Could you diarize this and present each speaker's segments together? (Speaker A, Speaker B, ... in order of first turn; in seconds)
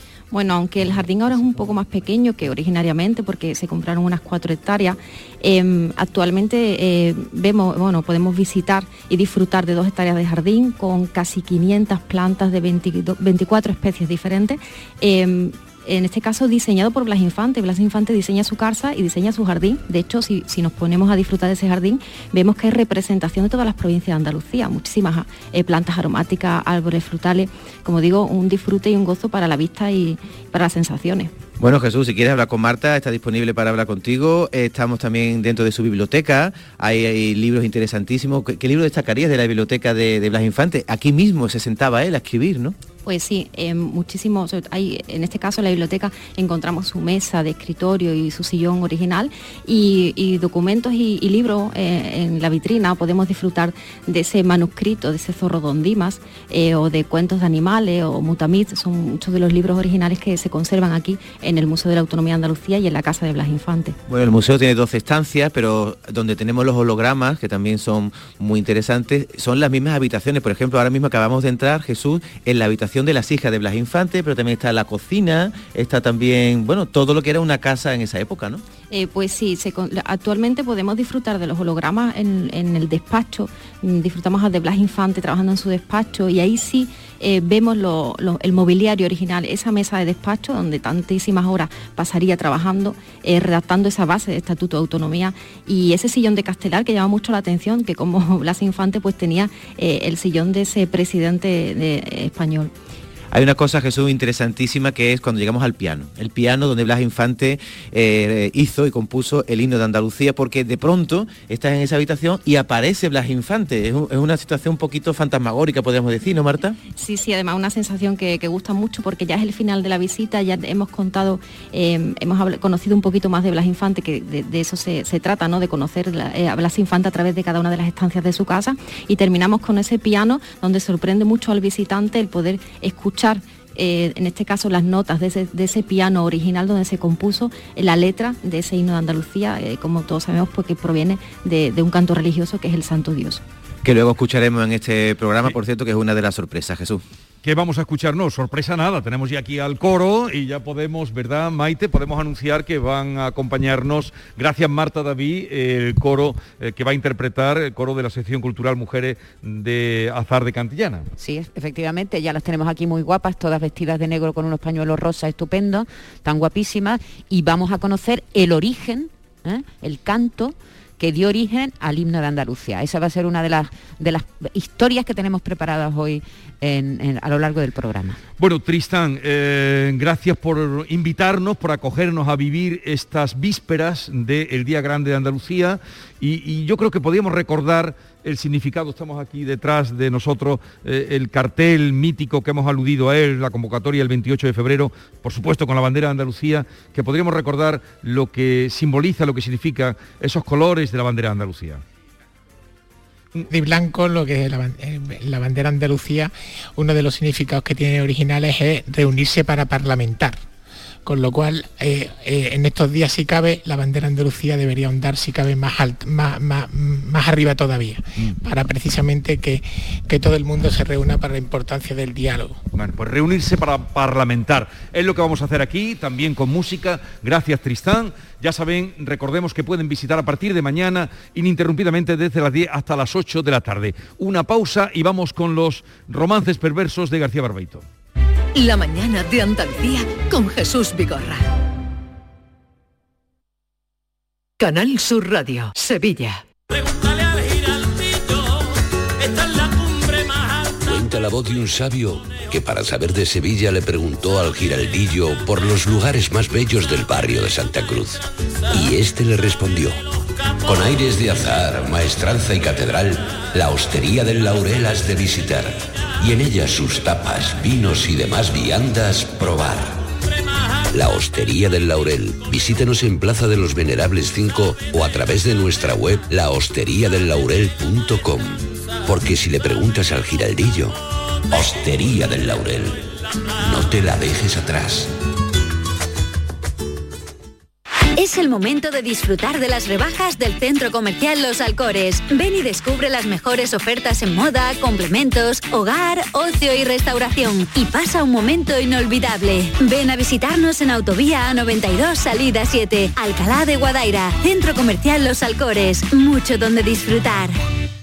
Speaker A: 0.3-31.3, 43.0-64.0, 78.9-102.7, 117.0-143.4
Speaker B: 31.6-42.8, 64.1-78.6, 103.3-116.8, 143.8-147.0
Speaker C: 147.4-161.1, 178.4-201.8, 222.7-237.8
Speaker D: 161.2-178.2
Speaker E: 203.5-210.4, 211.0-222.6
Speaker F: 238.5-241.5, 244.6-246.4
Speaker G: 250.8-260.0, 260.6-270.0, 270.9-281.0, 281.5-283.0, 283.6-285.1
Speaker H: 288.1-307.6